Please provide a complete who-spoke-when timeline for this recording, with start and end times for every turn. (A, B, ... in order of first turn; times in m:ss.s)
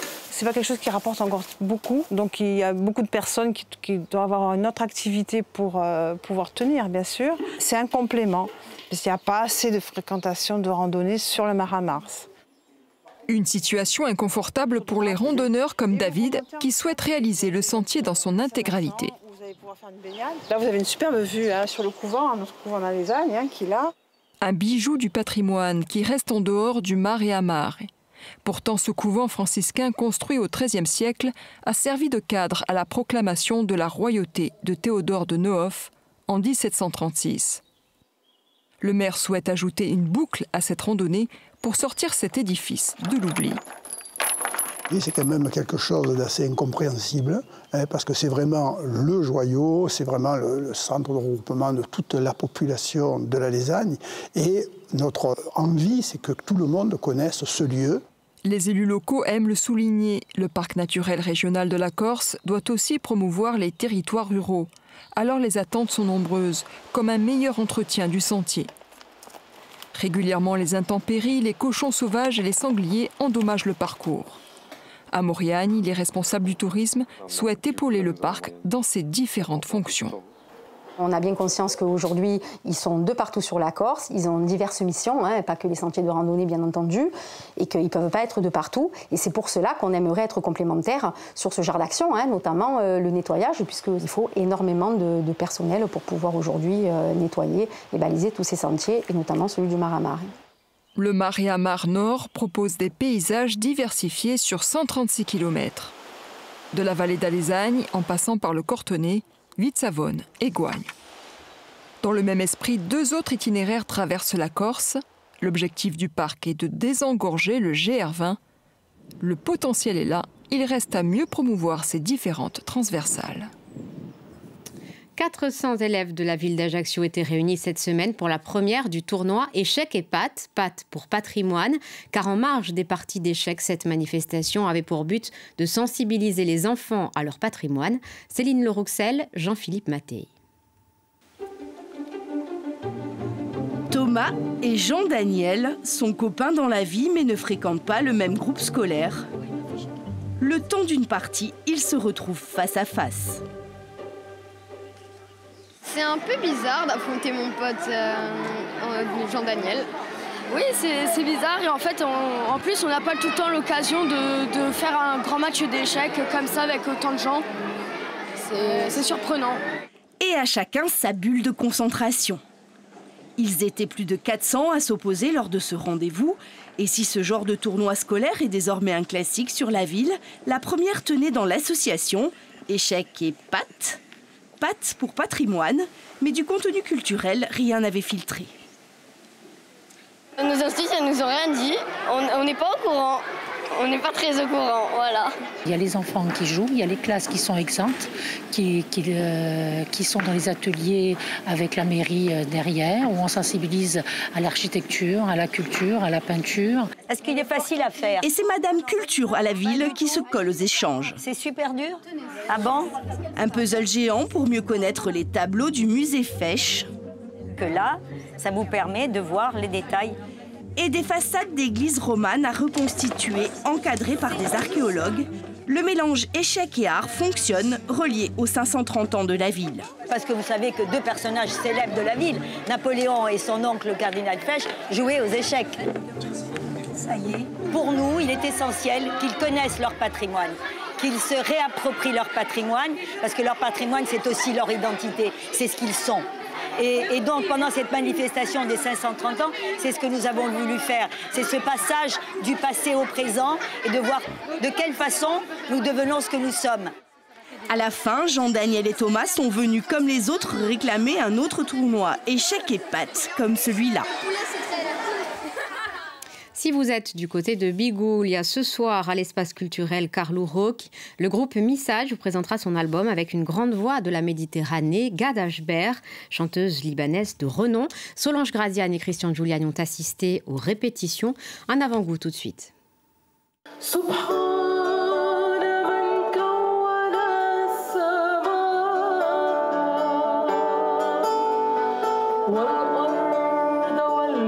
0:00.3-0:12.3 A
0:13.3-0:19.1 B
0:15.0-0:16.8 A
0:17.5-0:23.9 A
0:24.4-0:27.9 B
0:28.4-0:37.6 B
0:38.8-0:43.6 B
0:44.9-0:58.0 C
0:58.4-1:08.7 B
1:09.9-1:14.4 B
1:15.1-1:20.2 B
1:21.0-1:40.3 D
1:41.0-1:45.9 B
1:46.7-1:50.9 B
1:52.0-1:58.4 B
1:59.2-2:03.5 B
2:05.2-2:20.3 E
2:23.9-2:29.3 F
2:30.4-2:33.4 F
2:35.8-2:39.8 G
2:40.5-2:47.4 G
2:48.4-2:49.6 G
2:50.2-2:52.4 F
2:53.4-3:04.0 F
3:04.6-3:08.5 F
3:10.4-3:13.2 G
3:13.8-3:15.3 G
3:15.6-3:26.9 H
3:27.1-3:28.2 I
3:28.2-3:31.2 F
3:31.2-3:32.9 I
3:33.4-3:36.9 F
3:37.6-3:40.2 I
3:40.8-3:49.9 F
3:50.1-3:55.8 I
3:57.0-4:06.2 I
4:06.8-4:16.9 I
4:17.7-4:24.1 F
4:26.5-4:42.7 E